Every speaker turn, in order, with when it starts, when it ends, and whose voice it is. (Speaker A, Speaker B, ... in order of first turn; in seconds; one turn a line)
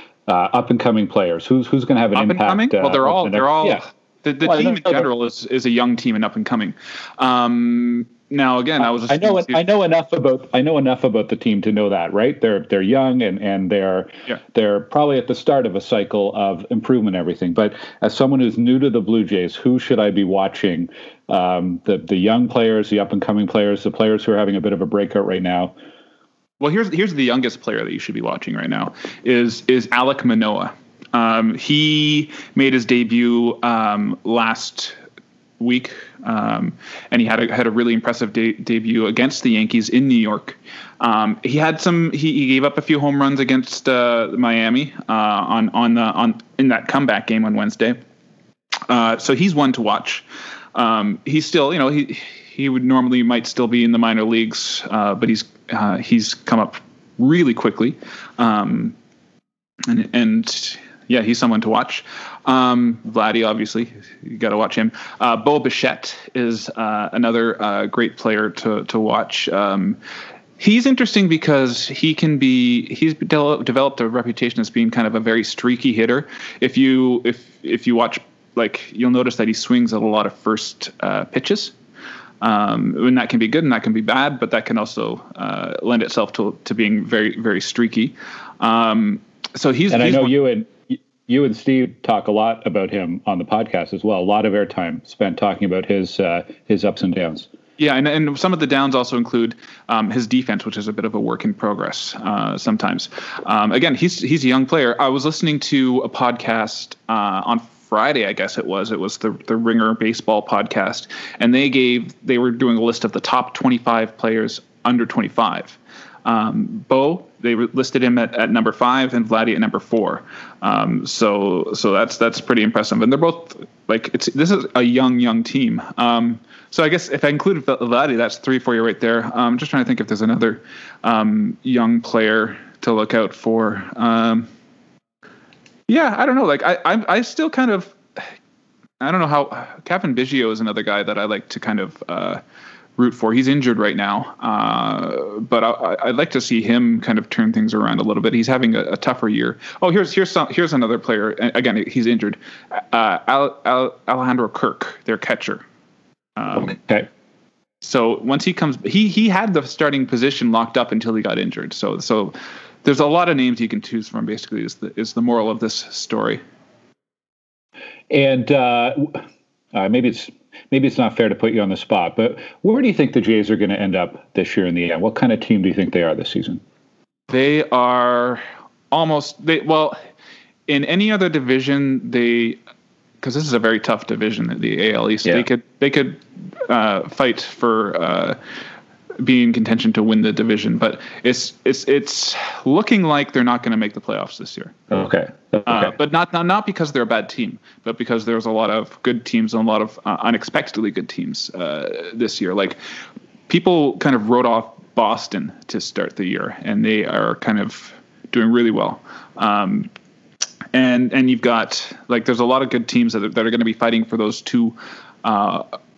Speaker A: 0.3-3.8
Speaker B: 2.1-9.6
Speaker A: 4.4-5.1
Speaker A: 8.8-25.7
Speaker B: 26.6-35.0
Speaker B: 35.6-48.0
Speaker B: 48.9-50.2
Speaker B: 50.7-59.0
Speaker B: 59.8-70.0
Speaker B: 70.6-81.7
Speaker B: 82.4-90.3
Speaker A: 89.9-97.5
Speaker B: 97.8-134.5
Speaker B: 135.9-138.2
Speaker B: 139.0-142.4
Speaker B: 143.0-155.6
Speaker B: 156.4-156.8
Speaker A: 156.6-157.1
Speaker B: 157.8-166.4
Speaker A: 168.1-169.2
Speaker A: 169.7-176.6
Speaker B: 177.3-180.0
Speaker B: 180.7-182.6
Speaker B: 183.2-188.4
Speaker B: 189.2-194.8
Speaker A: 194.9-195.9
Speaker B: 195.7-202.8
Speaker B: 203.5-209.9
Speaker B: 210.7-215.6